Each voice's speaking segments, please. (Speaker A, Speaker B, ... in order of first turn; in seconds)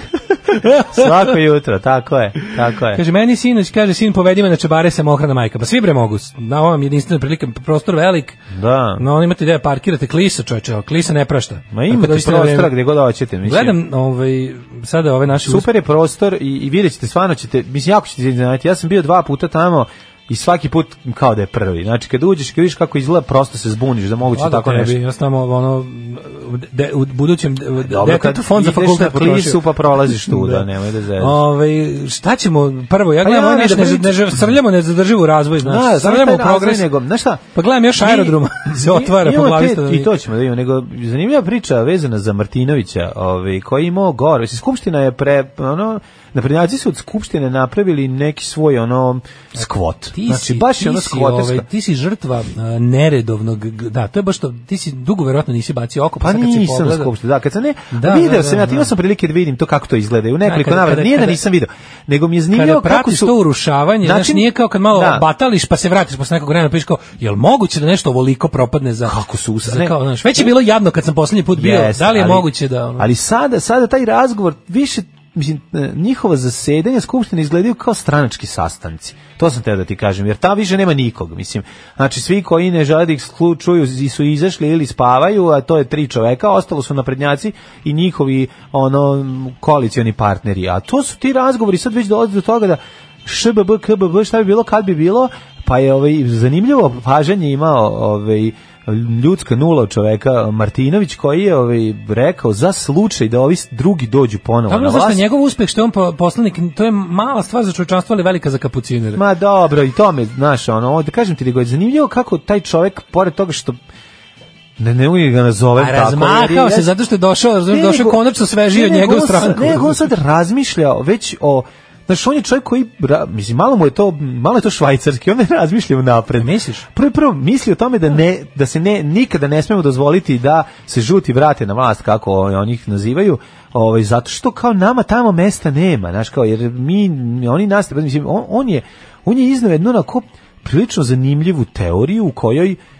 Speaker A: 0.5-1.3, 2.9-8.4, 9.0-12.7, 13.4-15.7, 24.3-30.6, 31.2-36.9, 37.5-40.1, 50.1-57.1, 57.9-58.9, 60.4-61.4, 62.5-73.1, 104.7-109.2, 115.8-120.1, 126.4-126.8
Speaker B: 0.9-3.0, 8.5-9.0, 11.7-13.8, 15.4-25.0, 27.8-31.4, 33.2-34.5, 35.6-37.4, 38.0-51.6, 56.2-63.4, 64.0-65.2, 69.0-70.5, 71.5-105.2, 109.1-113.8, 114.8-116.9, 117.7-142.8